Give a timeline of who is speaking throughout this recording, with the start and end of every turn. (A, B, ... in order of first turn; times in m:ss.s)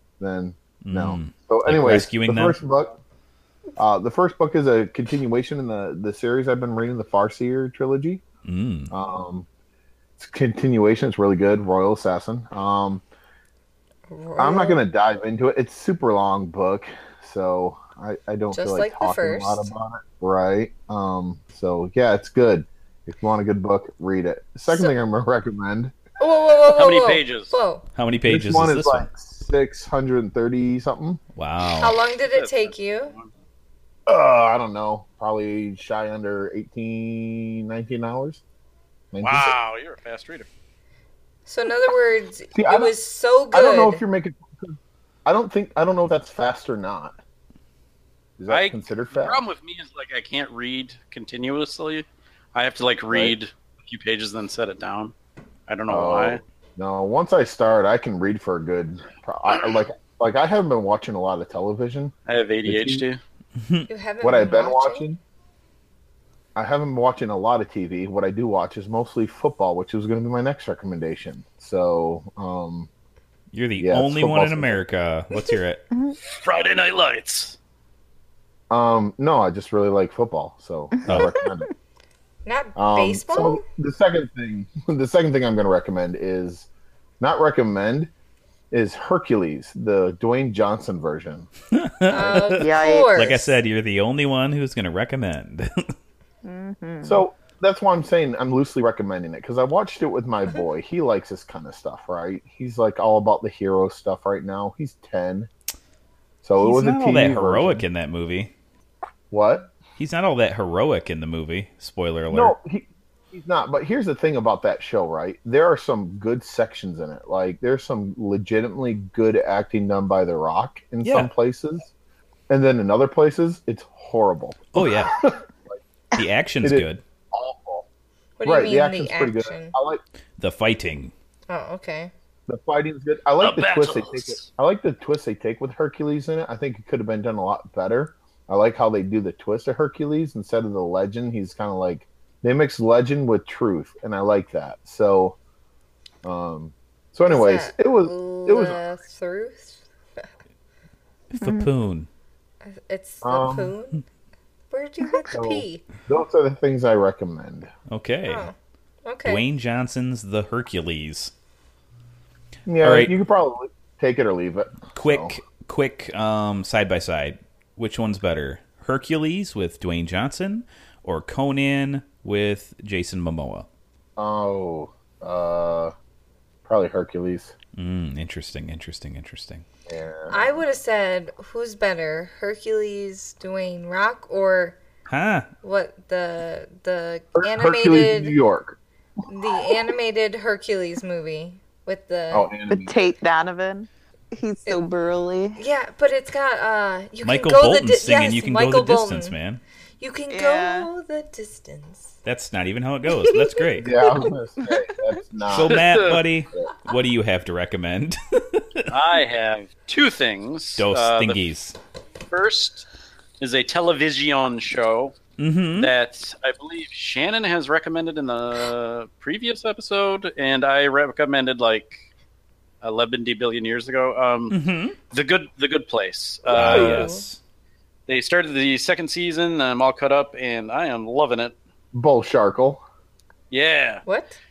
0:00.2-0:03.0 A
0:00.8-0:02.6 B
0:03.8-0:08.2 A
0:08.4-0:08.9 B
0:08.9-0:09.5 A
0:10.2-0:13.0 A
0:14.1-0:14.8 C
0:14.4-0:26.0 A
0:18.5-0:19.7 C
0:26.2-0:27.8 C
0:26.7-0:27.6 D
0:28.0-0:29.1 B
0:28.3-0:31.2 A
0:31.4-0:32.0 B
0:31.8-0:33.1 C
0:32.3-0:33.3 D
0:34.1-0:38.4 A
0:39.1-0:39.5 A
0:39.2-0:40.5 D
0:41.5-0:44.0 C
0:42.5-0:42.9 A
0:43.5-0:47.2 A
0:48.4-0:49.4 A
0:48.5-0:55.2 D
0:53.1-0:53.4 A
0:55.7-0:56.4 D
0:55.9-1:03.0 A
1:02.3-1:03.2 D
1:03.6-1:03.9 B
1:03.9-1:05.1 C
1:04.2-1:05.2 A
1:06.6-1:12.9 A
1:13.5-1:15.8 B
1:13.8-1:14.8 A
1:16.2-1:17.6 D
1:18.7-1:21.7 A
1:21.0-1:21.5 E
1:22.4-1:23.6 C
1:22.8-1:26.7 A
1:27.2-1:28.1 A
1:28.7-1:31.5 A
1:31.7-1:35.9 B
1:32.1-1:33.5 C
1:32.6-1:33.5 E
1:36.4-1:37.2 E
1:37.0-1:45.5 A
1:46.4-1:47.8 A
1:46.6-1:48.5 B
1:49.3-1:49.7 A
1:50.0-1:52.6 B
1:52.3-2:01.9 A
2:01.0-2:01.3 B
2:02.5-2:05.8 A
2:04.7-2:05.2 B
2:06.2-2:07.0 B
2:06.6-2:07.9 A
2:08.4-2:09.7 C
2:08.4-2:10.0 A
2:10.4-2:11.1 B
2:11.5-2:12.1 C
2:12.5-2:25.4 A
2:13.4-2:14.5 D
2:26.2-2:28.8 A
2:27.3-2:30.2 C
2:31.3-2:32.1 B
2:31.4-2:31.7 E
2:32.6-2:34.0 C
2:33.2-2:33.7 A
2:34.7-2:35.8 C
2:35.3-2:37.7 A
2:37.9-2:38.5 B
2:38.3-2:39.4 C
2:39.3-2:41.3 B
2:42.7-2:45.4 A
2:42.8-2:43.1 B
2:44.9-2:53.7 B
2:54.2-2:55.9 A
2:56.7-2:57.6 A
2:57.8-2:59.6 B
2:59.9-3:00.6 A
3:00.3-3:04.8 C
3:05.1-3:05.5 B
3:05.6-3:08.4 C
3:07.4-3:08.8 A
3:09.3-3:12.5 C
3:09.5-3:09.8 A
3:12.3-3:13.0 A
3:12.7-3:15.6 E
3:15.6-3:19.4 C
3:17.2-3:19.6 B
3:20.0-3:22.2 C
3:20.3-3:20.9 E
3:22.2-3:23.9 B
3:23.2-3:23.6 C
3:23.8-3:25.9 A
3:25.5-3:28.8 B
3:25.7-3:26.2 D
3:28.9-3:31.5 D
3:30.8-3:31.8 B
3:32.3-3:32.9 D
3:33.4-3:35.2 D
3:35.4-3:35.9 B
3:35.8-3:42.0 D
3:42.8-3:44.6 D
3:44.5-3:45.0 B
3:45.1-3:47.1 D
3:46.5-3:47.4 B
3:46.5-3:47.2 C
3:48.1-3:51.6 D
3:51.9-3:52.8 A
3:53.5-3:54.0 D
3:54.1-3:54.4 C